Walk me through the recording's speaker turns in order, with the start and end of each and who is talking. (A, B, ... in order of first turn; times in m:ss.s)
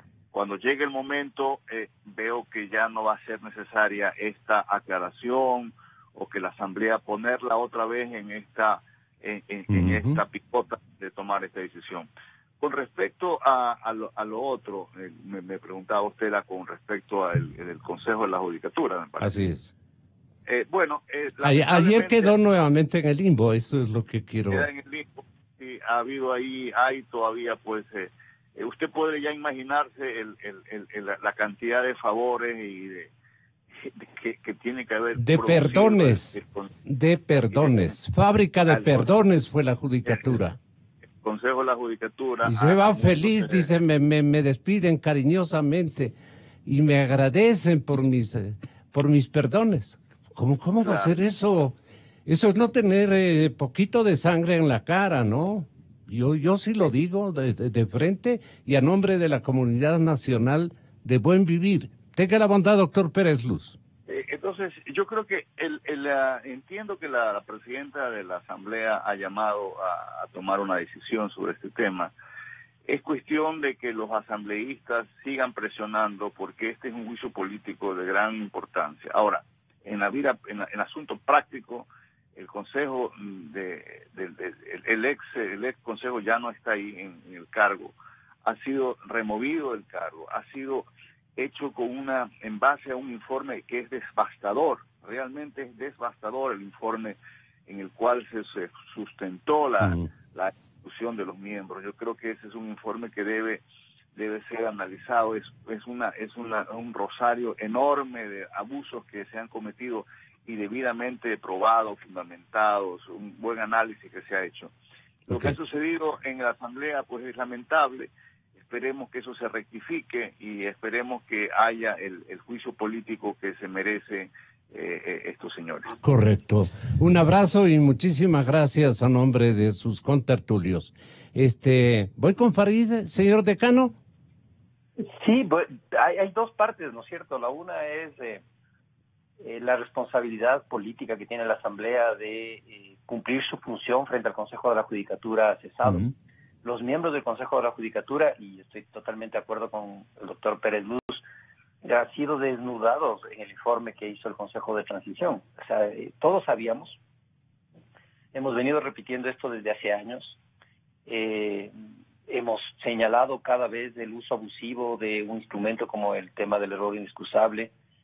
0:00.3-0:12.1 A
0:09.7-0:10.2 B
0:12.6-0:19.4 A
0:19.2-0:19.7 B
0:20.5-0:22.3 A
0:21.4-0:24.7 B
0:24.5-0:33.1 A
0:33.8-0:36.7 A
0:35.2-0:40.6 B
0:37.5-0:37.9 A
0:38.6-0:39.1 A
0:40.0-0:40.3 A
0:41.2-0:43.7 A
0:42.4-0:46.1 B
0:46.6-0:51.7 B
0:50.8-0:51.2 A
0:52.2-1:03.8 B
1:04.1-1:12.1 A
1:12.9-1:43.6 A
1:39.8-1:40.0 B
1:44.1-1:54.7 A
1:55.3-2:05.9 A
1:55.3-1:55.6 B
2:06.0-2:14.0 B
2:15.2-2:18.4 C
2:19.4-2:31.2 C
2:31.8-2:37.0 C
2:38.3-2:40.4 C
2:41.1-2:41.7 C
2:42.3-2:47.7 C